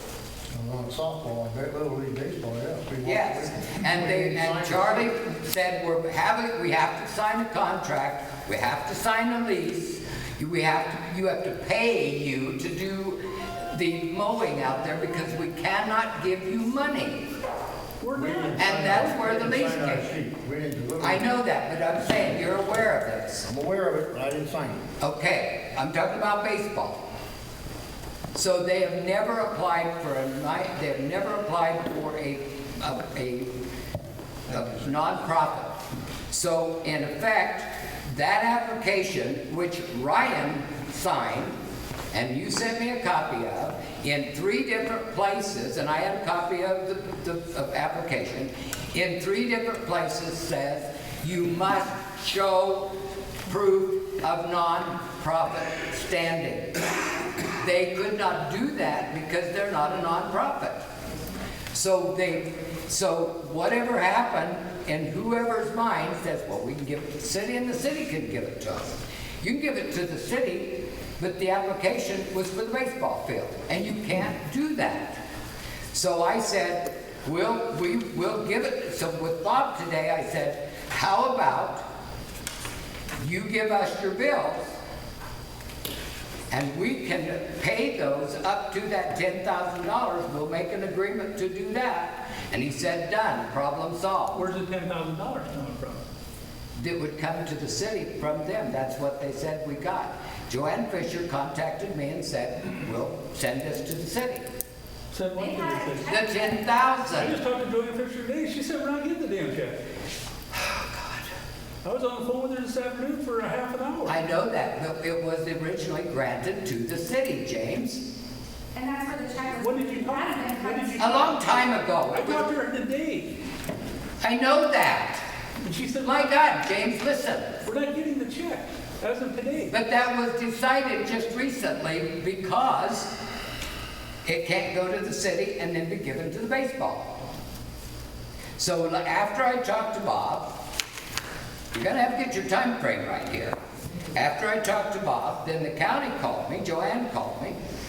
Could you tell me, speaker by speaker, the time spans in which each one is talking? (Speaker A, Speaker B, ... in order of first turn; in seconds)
Speaker A: 0.5-5.1, 18.1-21.2, 23.5-24.8
Speaker B: 3.0-17.2, 18.6-20.1, 21.0-23.5, 25.0-27.0, 28.4-33.5, 34.5-35.8, 36.3-41.6, 42.1-52.9, 53.5-56.8, 57.6-60.9, 61.7-75.2, 75.9-81.8, 83.2-84.8, 86.5-94.4, 96.8-104.5, 106.1-107.3, 110.5-111.3, 114.1-118.0, 121.0-122.5, 124.2-125.2, 126.0-127.5, 129.7-133.1, 134.2-137.2, 138.6-140.5, 141.7-143.6, 144.2-147.6
Speaker C: 18.0-19.1, 94.3-96.0, 105.1-106.2, 107.1-109.8, 111.8-114.2, 119.6-123.3, 125.7-126.3, 127.7-129.8
Speaker D: 105.4-106.5, 118.7-121.5